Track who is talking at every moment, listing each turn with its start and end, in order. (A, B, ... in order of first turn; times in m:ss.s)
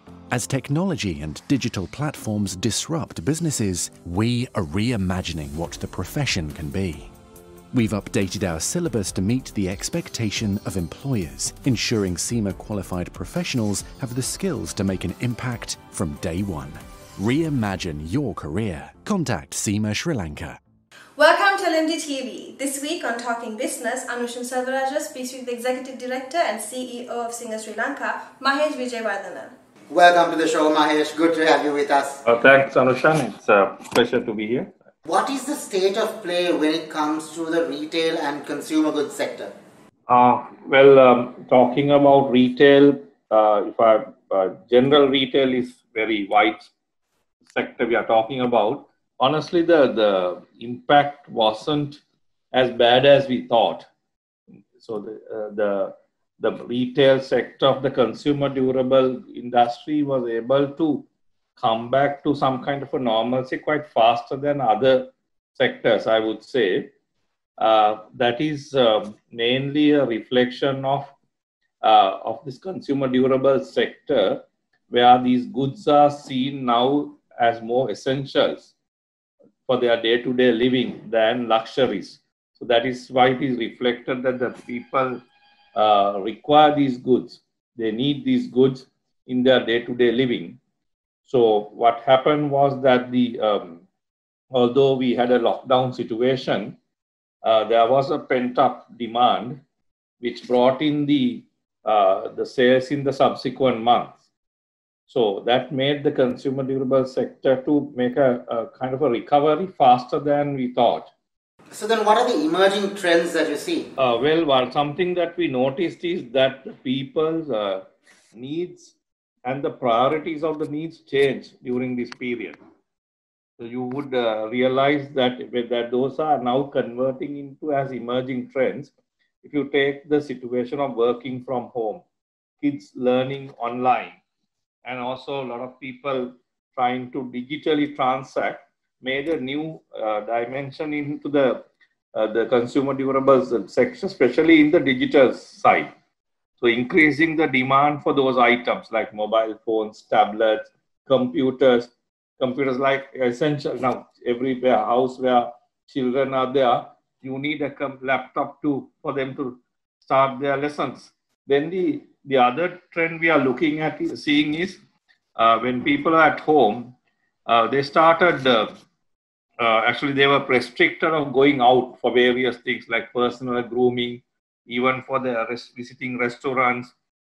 0:00.3-0:07.1 A
0:07.7-0:20.6 A
0:21.2-0:29.5 B
0:29.9-0:32.2 C
0:32.2-0:34.7 D
0:35.0-0:39.5 C
0:40.1-0:46.7 D
0:47.5-0:53.9 D
0:54.8-1:01.0 D
1:01.6-1:06.9 D
1:07.6-1:11.1 D
1:11.8-1:18.7 D
1:19.6-1:25.2 D
1:25.7-1:30.6 D
1:31.2-1:33.8 D
1:34.5-1:36.8 D
1:37.4-1:39.6 D
1:40.2-1:44.2 D
1:45.1-1:51.1 D
1:51.7-1:53.9 C
1:54.0-2:02.6 D
2:03.6-2:08.9 D
2:09.4-2:12.0 D
2:12.6-2:14.2 D
2:14.8-2:25.9 D
2:26.6-2:44.8 D
2:45.4-2:46.9 D
2:47.4-2:48.7 D
2:49.6-2:56.9 D